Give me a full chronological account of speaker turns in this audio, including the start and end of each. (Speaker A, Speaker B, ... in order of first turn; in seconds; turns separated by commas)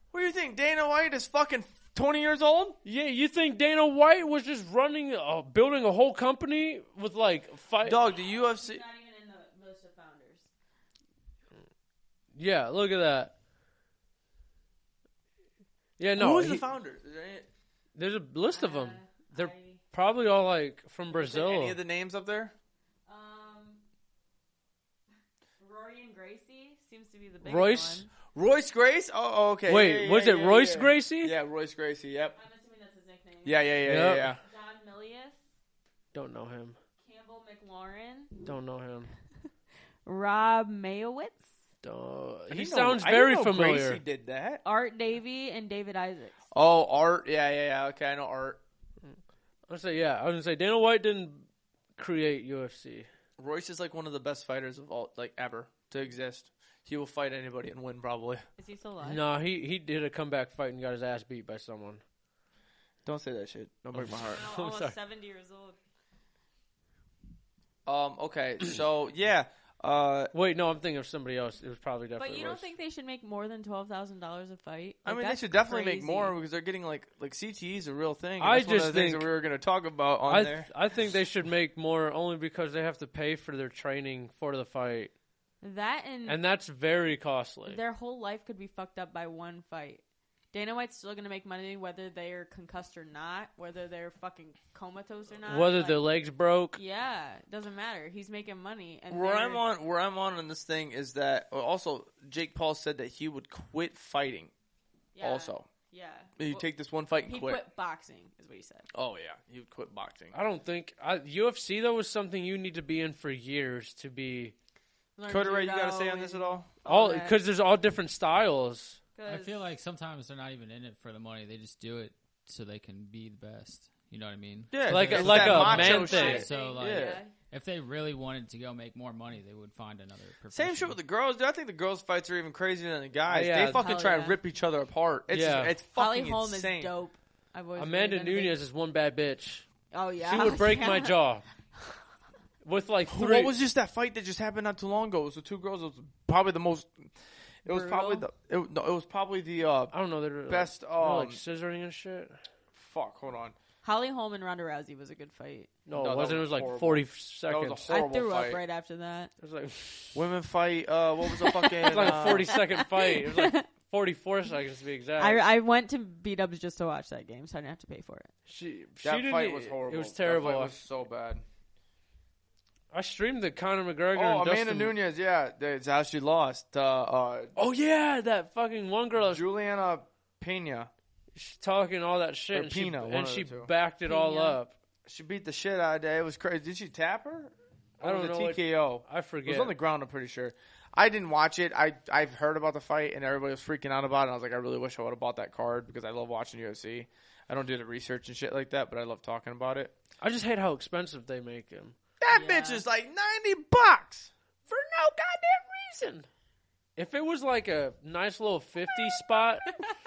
Speaker A: 0.1-2.8, Speaker B: 2.9-8.0, Speaker A: 7.8-8.8, Speaker C: 8.2-10.5, Speaker B: 12.3-13.3, Speaker B: 16.0-16.6, Speaker A: 16.2-17.5, Speaker B: 18.0-21.8, Speaker C: 18.5-19.8, Speaker A: 21.1-22.5, Speaker C: 23.1-23.8, Speaker C: 25.6-28.1, Speaker B: 27.4-28.1, Speaker A: 28.3-32.4, Speaker B: 29.7-31.4, Speaker C: 32.4-33.7, Speaker A: 33.5-34.4, Speaker B: 33.8-34.4, Speaker C: 34.4-35.4, Speaker B: 36.1-36.8, Speaker C: 37.0-38.4, Speaker B: 38.5-39.1, Speaker C: 40.0-41.5, Speaker B: 41.8-44.0, Speaker A: 42.5-44.6, Speaker C: 44.6-46.4, Speaker A: 46.5-48.6, Speaker B: 49.0-53.1, Speaker A: 53.4-58.4, Speaker C: 58.6-59.2, Speaker B: 59.0-62.0, Speaker A: 63.0-64.5, Speaker B: 63.9-64.9, Speaker C: 64.3-65.8, Speaker A: 67.9-70.3, Speaker B: 70.3-72.7, Speaker C: 72.2-76.3, Speaker A: 75.0-80.7, Speaker B: 78.4-79.3, Speaker B: 80.3-85.1, Speaker C: 85.6-86.4, Speaker B: 86.3-87.8, Speaker C: 87.7-96.0, Speaker B: 95.5-96.8, Speaker C: 96.7-99.6, Speaker A: 99.1-104.5, Speaker C: 105.2-106.7, Speaker A: 105.2-105.7, Speaker A: 106.4-107.6, Speaker C: 107.2-108.9, Speaker A: 108.9-110.3, Speaker B: 110.3-114.5, Speaker C: 115.2-117.4, Speaker A: 115.3-116.7, Speaker B: 116.9-119.0, Speaker C: 119.2-119.6, Speaker D: 119.3-131.0, Speaker A: 124.7-127.2, Speaker B: 124.9-126.5, Speaker C: 125.7-127.3, Speaker A: 130.5-136.9, Speaker B: 133.3-133.8, Speaker C: 133.7-134.4, Speaker B: 135.3-135.8, Speaker C: 135.9-138.6, Speaker B: 137.8-139.7, Speaker C: 139.9-141.2, Speaker B: 140.2-141.4, Speaker B: 142.6-143.5, Speaker A: 143.1-147.1, Speaker A: 147.6-149.9, Speaker C: 147.7-148.2, Speaker B: 149.9-152.4, Speaker A: 150.5-151.4, Speaker A: 152.7-153.6, Speaker C: 153.8-155.7, Speaker B: 155.9-157.9, Speaker A: 156.0-158.6, Speaker C: 157.9-159.3, Speaker B: 159.4-160.2, Speaker A: 160.2-162.5, Speaker C: 161.4-163.7, Speaker B: 161.8-165.4, Speaker C: 165.2-168.3, Speaker B: 168.5-170.8, Speaker A: 169.0-171.4, Speaker B: 172.9-174.9, Speaker A: 174.1-177.6, Speaker B: 177.6-179.4, Speaker A: 179.2-180.9, Speaker B: 181.3-184.7, Speaker A: 182.5-183.7, Speaker C: 184.1-184.6, Speaker A: 185.1-199.9, Speaker B: 188.0-189.8, Speaker B: 200.2-201.9, Speaker A: 202.2-204.3, Speaker C: 202.3-202.8, Speaker B: 204.7-206.3, Speaker B: 207.0-209.7, Speaker C: 209.7-209.9